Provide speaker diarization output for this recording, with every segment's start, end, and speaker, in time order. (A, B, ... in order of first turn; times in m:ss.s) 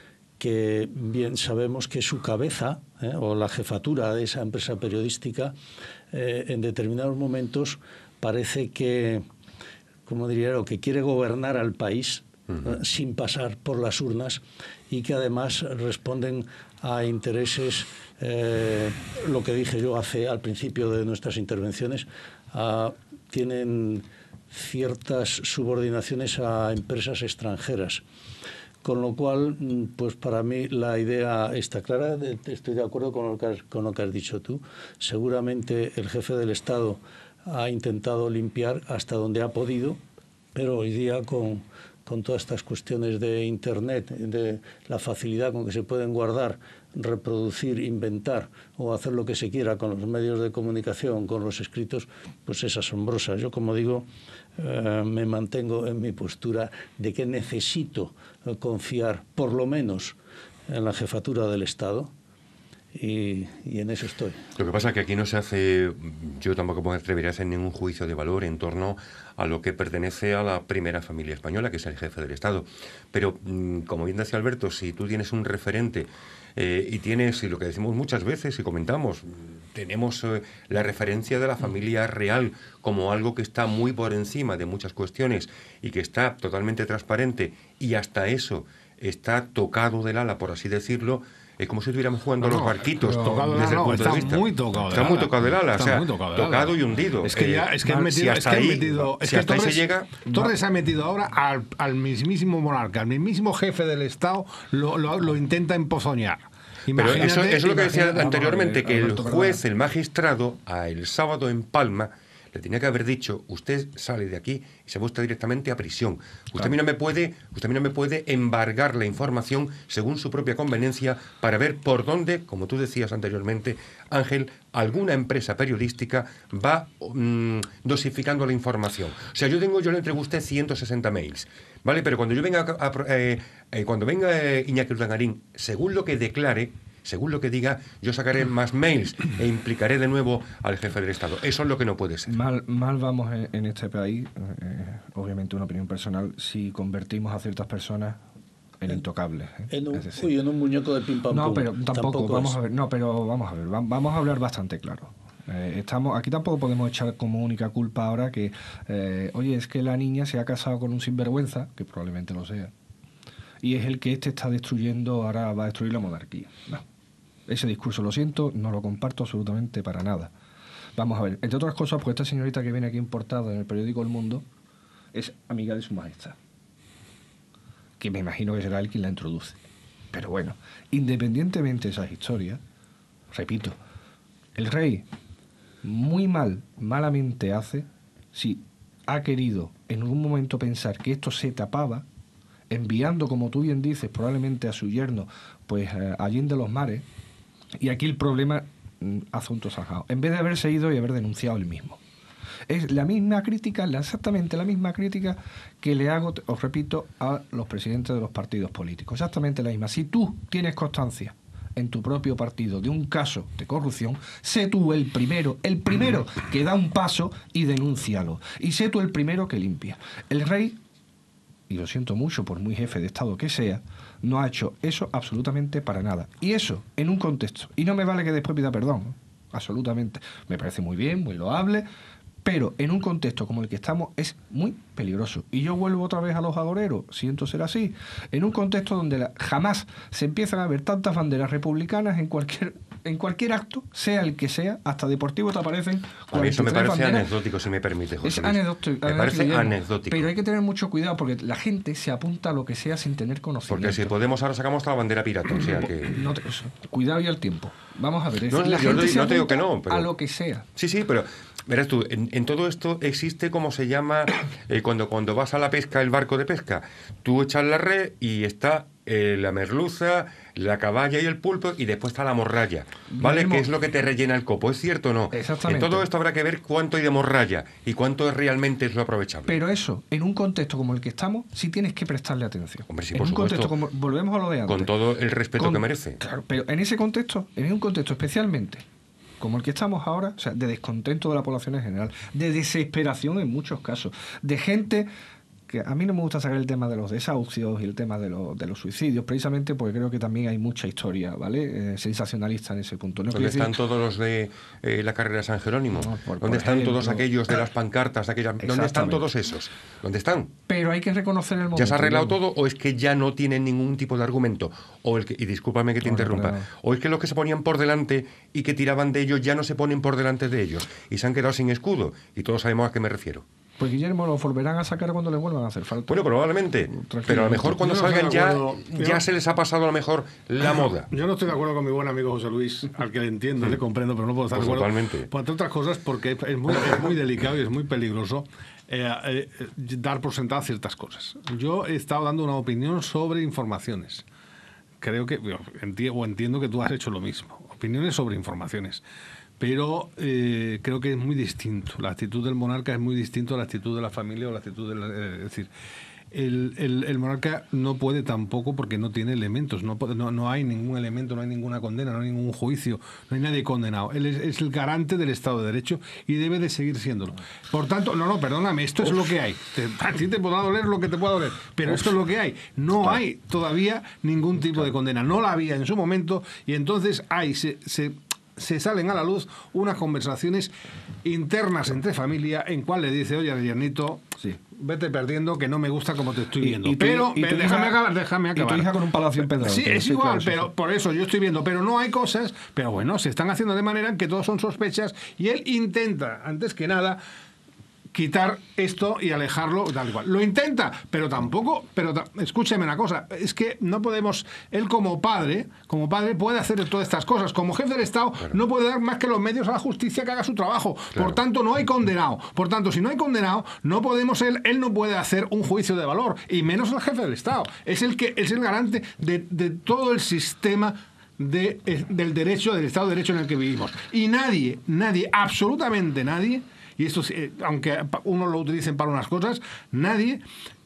0:00.4-0:05.6 A
0:06.1-0:09.3 A
0:10.1-0:28.0 A
0:28.8-0:40.0 A
0:40.6-1:00.2 A
1:00.7-1:02.1 A
1:02.9-1:04.4 A
1:04.6-1:40.3 B
1:32.4-1:47.9 C
1:33.0-1:34.9 D
1:46.9-2:22.4 B
1:47.6-1:49.6 D
2:22.3-2:28.2 D
2:28.8-2:30.3 D
2:29.7-2:32.6 A
2:31.3-2:42.7 D
2:43.6-2:46.8 D
2:47.5-2:50.3 D
2:51.0-2:54.4 D
2:55.1-2:56.4 D
2:58.0-2:59.6 D
3:00.1-3:02.6 D
3:03.3-3:03.8 D
3:04.6-3:05.1 D
3:05.8-3:12.1 D
3:12.7-3:17.0 D
3:17.8-3:22.0 D
3:22.7-3:40.8 D
3:41.7-3:51.9 D
3:52.4-4:07.3 D
4:06.3-4:10.3 B
4:08.2-4:14.1 D
4:13.7-4:16.2 B
4:16.0-4:20.7 D
4:18.5-4:20.1 B
4:20.8-4:39.6 B
4:33.1-4:33.7 D
4:35.3-4:36.1 D
4:39.5-4:44.9 D
4:42.9-4:43.8 B
4:44.7-4:46.2 B
4:45.6-4:48.8 D
4:49.4-4:55.1 D
4:55.7-5:03.8 D
5:03.3-5:10.5 B
5:05.9-5:07.5 D
5:08.6-5:09.3 D
5:10.7-5:12.4 D
5:11.8-5:23.4 B
5:16.0-5:16.7 D
5:23.8-5:26.2 D
5:26.1-5:31.1 B
5:26.9-5:27.8 D
5:27.7-5:29.2 C
5:31.1-5:44.2 C
5:34.5-5:35.3 B
5:45.0-5:49.0 C
5:49.6-5:55.7 C
5:56.3-6:20.7 C
6:21.2-6:28.9 C
6:26.6-6:28.0 D
6:28.6-6:30.7 D
6:29.4-6:37.2 C
6:38.1-7:10.4 C
6:51.1-6:51.4 B